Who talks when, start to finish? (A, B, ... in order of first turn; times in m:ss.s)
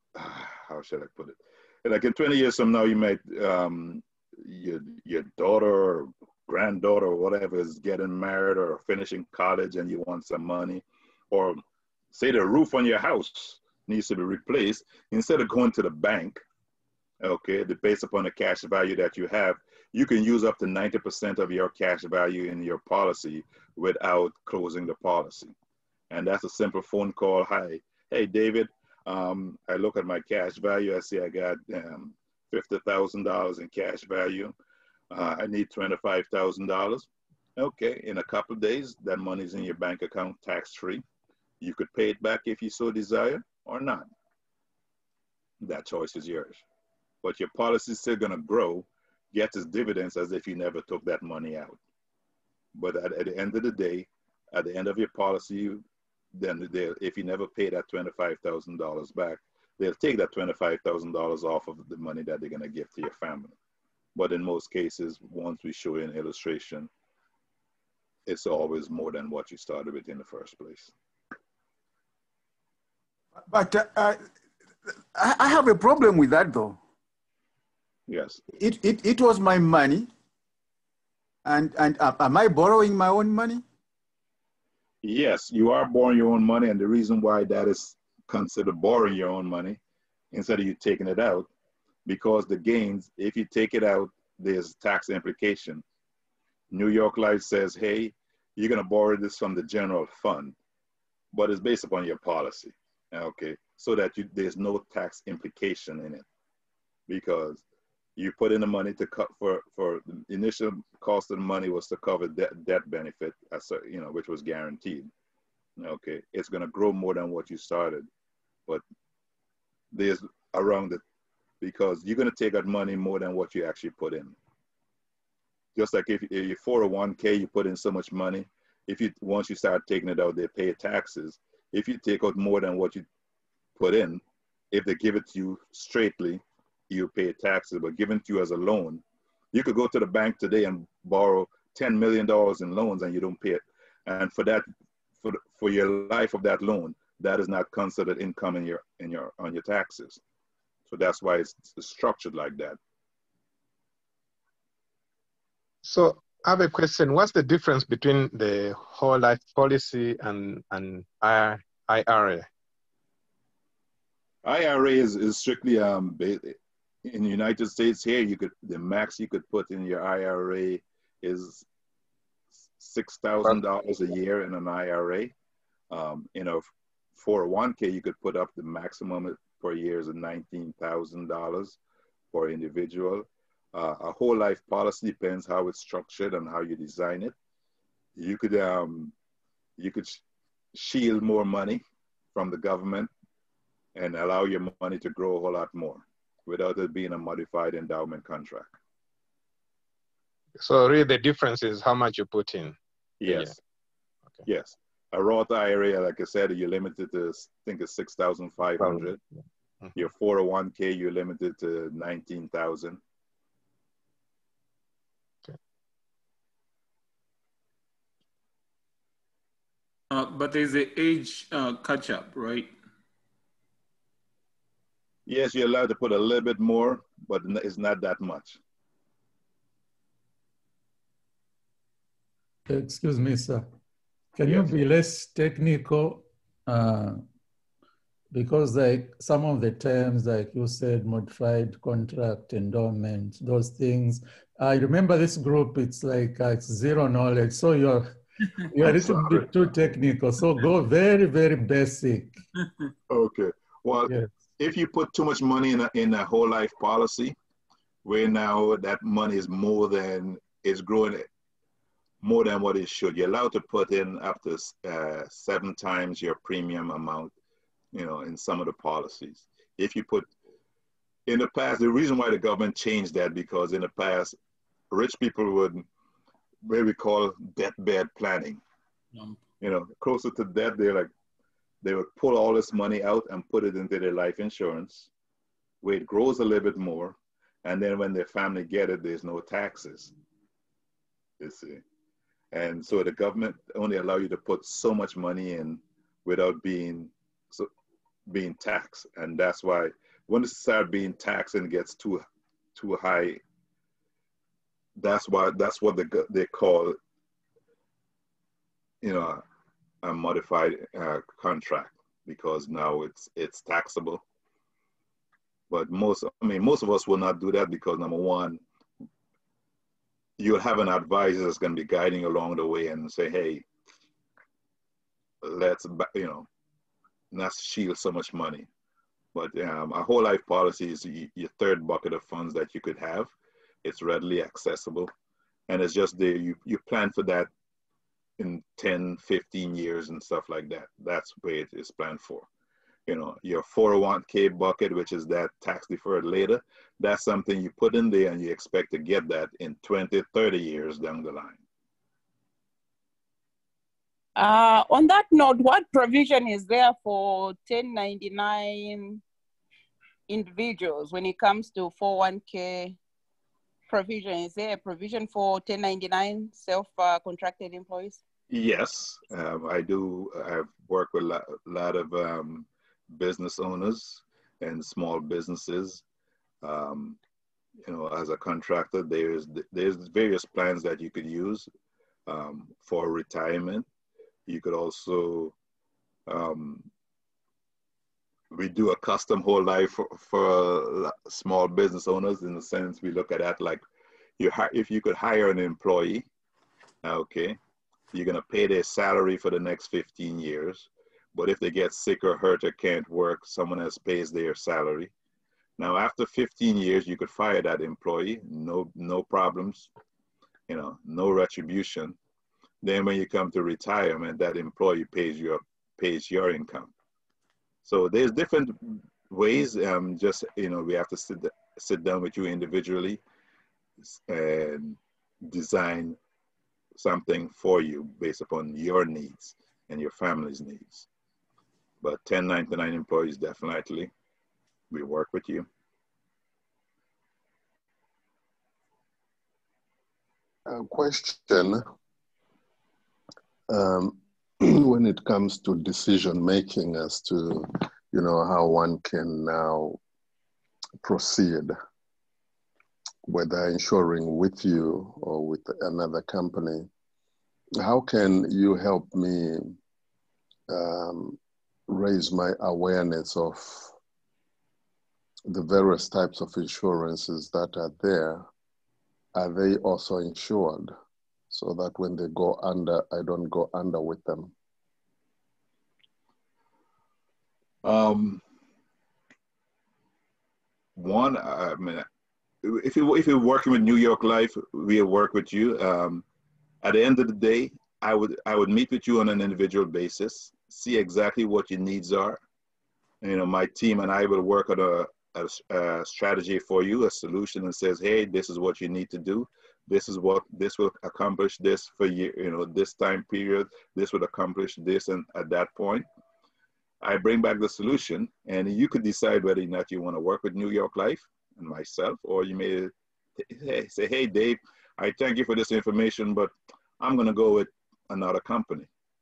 0:00.1-0:11.6 A
0:12.1-0:16.4 A
0:17.2-0:25.5 A
0:26.1-0:34.5 A
0:35.1-0:41.0 A
0:41.6-0:44.0 A
0:45.6-0:46.6 A
0:47.2-0:51.8 A
0:52.7-0:55.8 A
0:56.3-1:03.5 A
1:04.1-1:06.9 A
1:08.2-1:10.9 A
1:13.5-1:14.2 B
1:15.1-1:16.8 B
1:18.1-1:18.4 A
1:18.5-1:20.1 B
1:21.4-1:23.6 B
1:25.0-1:29.8 A
1:30.3-1:31.5 A
1:32.0-1:35.8 A
1:36.7-1:40.5 A
1:41.3-1:46.2 A
1:47.1-1:47.6 A
1:48.2-1:55.1 A
1:55.8-1:58.1 A
1:59.9-2:01.0 A
2:01.6-2:04.4 A
2:05.8-2:13.0 A
2:13.8-2:19.0 A
2:19.5-2:24.6 A
2:25.2-2:30.2 A
2:30.9-2:32.8 A
2:35.8-2:42.5 C
2:44.4-2:51.6 A
2:52.8-2:55.3 A
2:55.9-2:56.6 A
2:57.2-3:01.8 A
3:02.3-3:07.3 A
3:08.2-3:09.1 A
3:09.8-3:10.2 A
3:10.7-3:11.8 A
3:12.3-3:13.1 A
3:13.9-3:18.8 A
3:20.6-3:23.5 C
3:23.2-3:23.6 A
3:24.4-3:29.2 A
3:28.8-3:29.1 C
3:29.9-3:33.0 A
3:40.1-3:42.7 D
3:45.2-3:48.6 A
3:52.7-3:53.7 E
3:54.4-3:57.2 E
3:54.4-3:54.7 A
3:58.3-4:08.2 E
4:08.7-4:12.4 E
4:08.8-4:09.5 A
4:13.1-4:17.3 A
4:18.0-4:21.3 A
4:22.2-4:27.3 A
4:27.9-4:30.3 A
4:31.3-4:34.3 A
4:34.9-4:35.8 A
4:36.6-4:38.6 A
4:39.1-4:39.4 D
4:39.6-4:41.1 A
4:41.8-4:45.1 A
4:45.8-4:50.1 A
4:51.4-4:51.8 A
4:52.5-4:57.7 A
4:58.3-5:02.2 A
5:02.7-5:03.4 A
5:05.0-5:07.0 A
5:09.0-5:09.4 A
5:10.0-5:14.2 A
5:15.7-5:18.6 A
5:20.4-5:23.6 A
5:25.4-5:26.5 A
5:27.3-5:28.7 A
5:29.3-5:33.3 A
5:33.8-5:35.1 A
5:35.7-5:37.5 A
5:38.4-5:42.5 A
5:43.1-5:51.6 A
5:54.4-5:59.2 F
6:00.3-6:03.0 F
6:03.9-6:08.2 F
6:08.5-6:16.0 A
6:16.6-6:17.2 A
6:17.8-6:21.7 A
6:22.3-6:23.8 A
6:24.5-6:25.5 A
6:26.3-6:26.9 A
6:28.5-6:33.8 A
6:34.4-6:36.2 A
6:37.0-6:37.6 A
6:38.1-6:45.1 A
6:45.8-6:49.9 A
6:50.7-6:52.2 A
6:52.8-6:56.9 A
6:57.8-7:03.2 A
7:04.0-7:06.2 A
7:07.0-7:11.1 A
7:12.0-7:14.1 A
7:14.9-7:15.7 A
7:20.6-7:21.8 G
7:23.7-7:30.0 G
7:31.0-7:31.7 G
7:33.2-7:36.9 G
7:37.8-7:39.8 G
7:40.7-7:43.9 G
7:45.5-7:48.4 G
7:49.3-7:50.9 G
7:51.5-7:54.5 G
7:57.8-7:58.4 A
8:01.0-8:02.0 A
8:02.6-8:06.2 A
8:06.8-8:12.4 A
8:13.2-8:26.0 A
8:27.0-8:38.9 A